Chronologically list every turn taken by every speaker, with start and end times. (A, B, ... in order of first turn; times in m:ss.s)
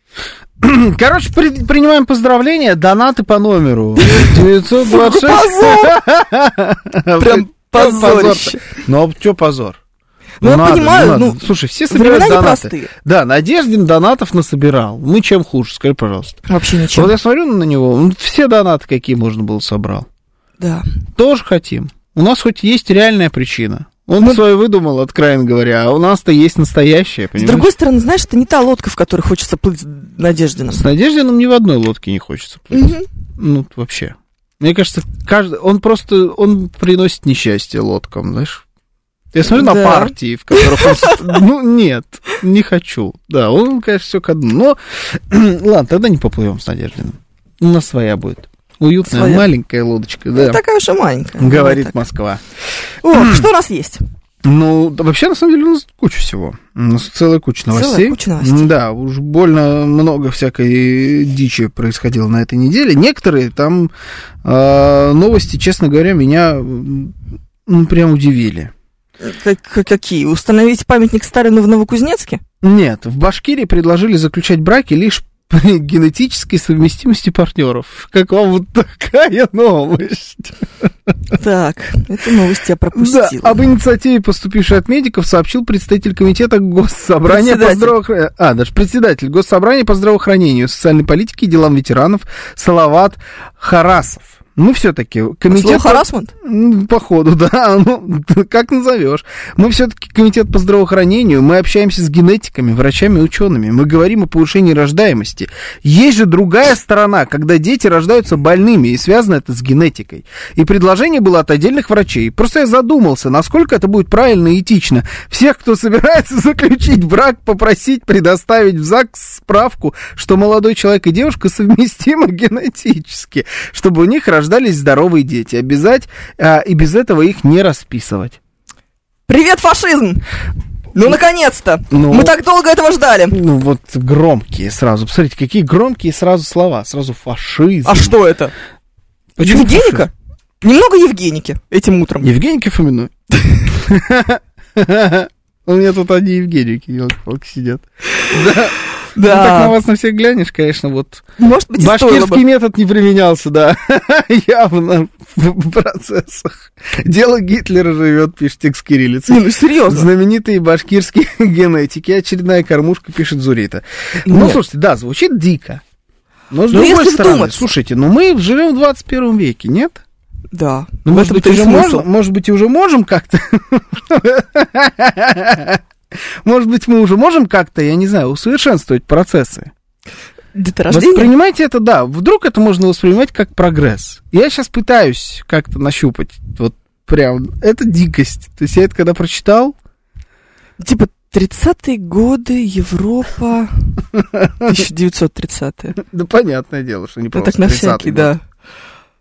0:00.6-0:09.8 A
0:04.0-0:06.0 B
0:07.2-0:08.8 B
0:10.4-0:12.9 B
0:10.4-0:16.4 A
0:16.5-0:17.1 B
0:16.9-0:20.1 A
0:21.2-0:27.7 A
0:27.3-0:30.8 B
0:30.7-0:38.6 A
0:32.7-0:33.1 B
0:39.3-0:50.6 A
0:39.5-0:41.2 B
0:49.1-0:49.5 B
0:50.3-0:52.0 B
0:51.4-0:52.4 A
0:53.0-0:54.0 B
0:53.1-0:53.5 A
0:54.4-1:03.9 A
0:57.7-0:58.7 B
1:04.4-1:07.2 A
1:07.7-1:08.7 A
1:09.2-1:12.4 B
1:12.6-1:20.8 A
1:21.3-1:23.6 B
1:23.0-2:08.4 A
1:27.3-1:27.9 B
1:35.5-1:36.3 B
2:09.3-2:10.2 B
2:10.9-2:13.4 B
2:11.9-2:12.3 A
2:13.3-2:18.2 A
2:17.8-2:18.5 B
2:19.4-2:20.1 A
2:19.4-2:20.1 B
2:20.6-2:22.3 B
2:22.2-2:23.1 A
2:23.7-2:31.2 A
2:29.2-2:29.8 B
2:31.4-2:32.4 B
2:31.8-2:45.8 A
2:39.3-2:40.1 B
2:44.3-2:44.6 B
2:46.5-2:50.0 A
2:46.7-2:47.7 B
2:50.5-2:52.0 B
2:51.0-2:55.8 A
2:56.4-2:59.7 A
3:00.5-3:01.3 B
3:00.9-3:09.8 A
3:10.8-3:14.0 B
3:14.3-3:14.8 A
3:14.6-3:16.0 B
3:16.0-3:18.3 A
3:17.3-3:18.4 B